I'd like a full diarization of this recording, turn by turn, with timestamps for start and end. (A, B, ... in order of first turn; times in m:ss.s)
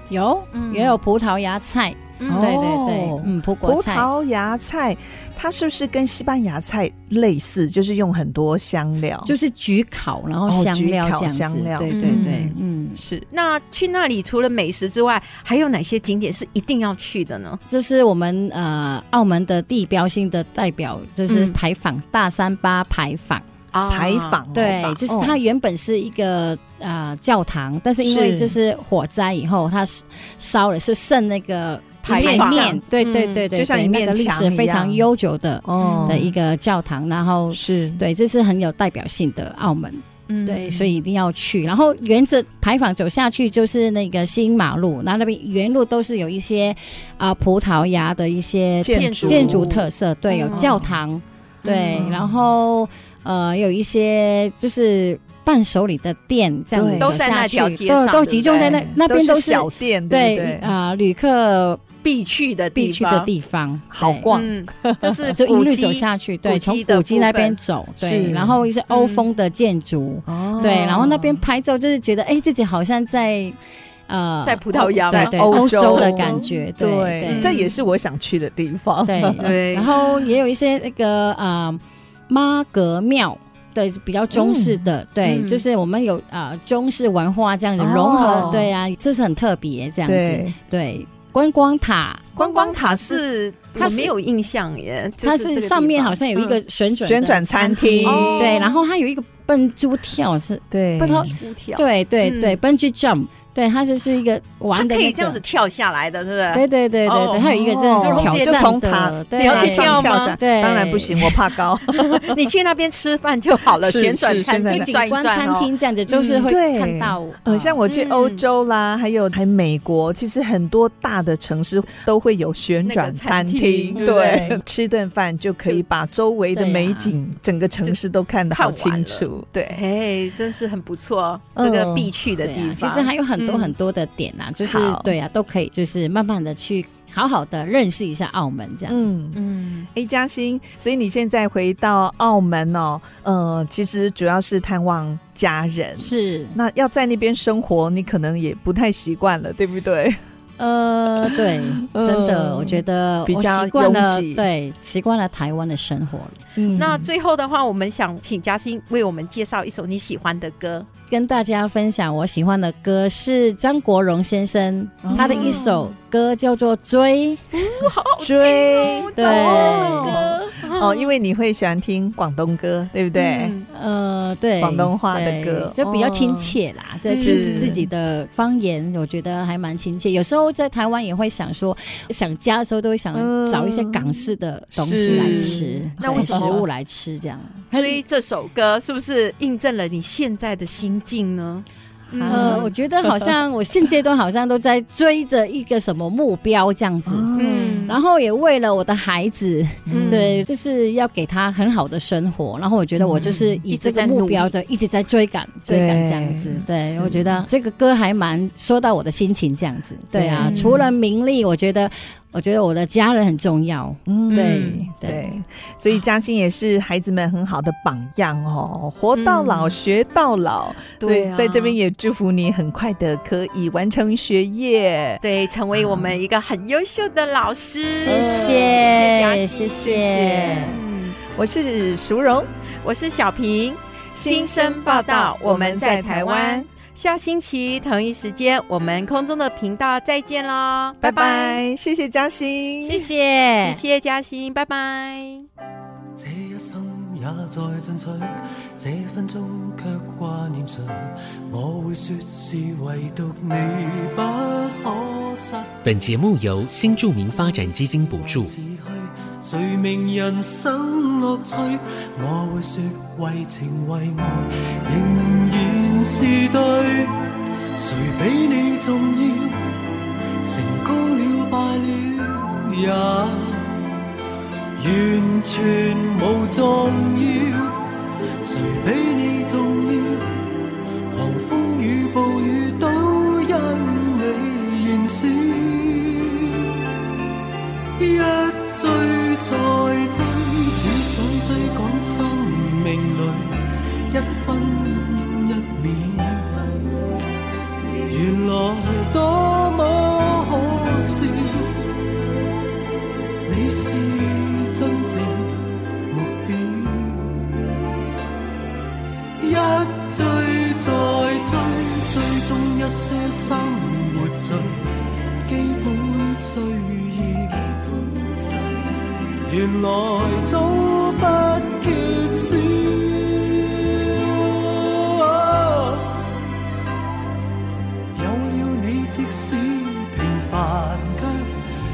0:00.1-0:04.1 A
0:00.5-0:01.0 B
0:02.2-0:02.5 B
0:02.2-0:09.3 C
0:09.2-0:13.0 A
0:10.5-0:12.3 C
0:11.9-0:12.6 B
0:13.0-0:13.3 C
0:13.3-0:17.6 B
0:17.7-0:23.4 A
0:21.3-0:21.6 B
0:23.7-0:24.9 B
0:23.9-0:25.4 C
0:24.5-1:01.8 A
0:28.0-0:28.6 C
0:32.0-0:33.5 B
0:32.1-0:32.8 C
0:33.5-0:35.1 C
0:35.6-0:36.3 C
0:35.8-0:36.3 B
0:37.5-0:38.0 C
0:40.3-0:41.0 B
0:48.8-0:49.7 C
0:48.9-0:50.8 B
0:50.5-0:50.9 C
0:51.6-0:52.1 B
0:51.9-0:52.5 C
0:56.7-0:57.2 C
0:57.0-0:58.8 B
0:58.6-1:00.8 C
1:02.0-1:03.3 B
1:02.8-1:04.3 A
1:03.9-1:05.3 C
1:04.3-1:07.6 B
1:05.3-1:13.6 A
1:08.0-1:08.6 C
1:08.9-1:09.3 B
1:10.3-1:11.3 C
1:10.4-1:11.2 B
1:14.1-1:17.5 A
1:14.4-1:16.5 B
1:14.8-1:19.6 C
1:17.3-1:17.7 B
1:19.1-1:32.3 A
1:19.4-1:20.2 B
1:24.3-1:24.9 C
1:25.2-1:25.6 B
1:27.8-1:28.7 C
1:28.2-1:28.7 B
1:30.1-1:30.6 C
1:32.4-1:33.2 C
1:32.4-1:36.6 B
1:33.8-1:34.1 A
1:35.2-1:45.4 A
1:37.0-1:38.7 C
1:38.0-1:38.8 B
1:40.7-1:41.3 C
1:41.3-1:42.6 B
1:44.7-1:48.8 B
1:46.5-1:51.3 A
1:47.6-1:52.5 C
1:49.4-1:50.4 B
1:51.9-1:56.5 B
1:53.8-1:54.9 C
1:54.6-1:57.8 A
1:56.4-2:09.8 C
1:57.9-1:58.4 B
2:02.8-2:04.6 B
2:04.0-2:04.3 A
2:06.5-2:07.1 A
2:08.5-2:13.7 B
2:11.6-2:12.1 C
2:12.4-2:19.0 A
2:14.6-2:15.1 C
2:18.9-2:19.4 C
2:19.3-2:19.9 B
2:19.9-2:30.2 C
2:26.0-2:26.6 A
2:30.6-2:37.0 A
2:31.2-2:34.5 C
2:36.6-2:37.1 C
2:36.8-2:40.9 B
2:41.1-2:47.5 A
2:45.0-2:45.7 C
2:45.1-2:45.8 B
2:47.5-2:51.2 B
2:47.9-2:53.5 C
2:49.2-2:50.2 A
2:53.2-2:53.7 B
2:53.7-3:08.0 A
2:54.6-2:56.6 C
2:57.1-2:57.8 B
2:57.2-2:57.8 C
3:03.1-3:06.6 C
3:05.1-3:06.6 B
3:07.7-3:12.7 B
3:12.1-3:13.3 C
3:12.3-3:17.3 A
3:17.1-3:17.9 C
3:17.4-3:18.0 B
3:17.9-3:35.3 A
3:19.9-3:20.4 C
3:19.9-3:20.2 B
3:23.0-3:23.6 C
3:23.2-3:24.5 B
3:25.7-3:27.4 C
3:30.1-3:30.8 C
3:30.4-3:30.9 B
3:34.1-3:45.2 C
3:34.3-3:34.9 B
3:39.1-3:39.8 B
3:41.0-3:41.8 B
3:45.2-3:49.9 B
3:45.7-3:46.2 C
3:48.0-3:50.8 A
3:48.0-3:49.0 C
3:49.8-3:50.8 C
3:50.6-3:51.2 B
3:51.3-3:52.5 C
3:52.8-4:01.6 B
3:54.2-3:56.7 C
4:01.0-4:03.1 C
4:02.8-4:03.8 A
4:03.6-4:05.5 B
4:06.2-4:15.8 D
4:15.8-4:18.5 E
4:17.6-4:27.2 D
4:27.8-4:29.7 D
4:30.4-4:33.9 D
4:34.8-4:37.8 D
4:38.4-4:40.5 D
4:41.1-4:46.7 D
4:48.0-4:56.8 D
4:58.1-5:01.8 D
5:03.5-5:07.6 D
5:09.4-5:18.5 D
5:19.4-5:26.3 D
5:28.1-5:31.5 D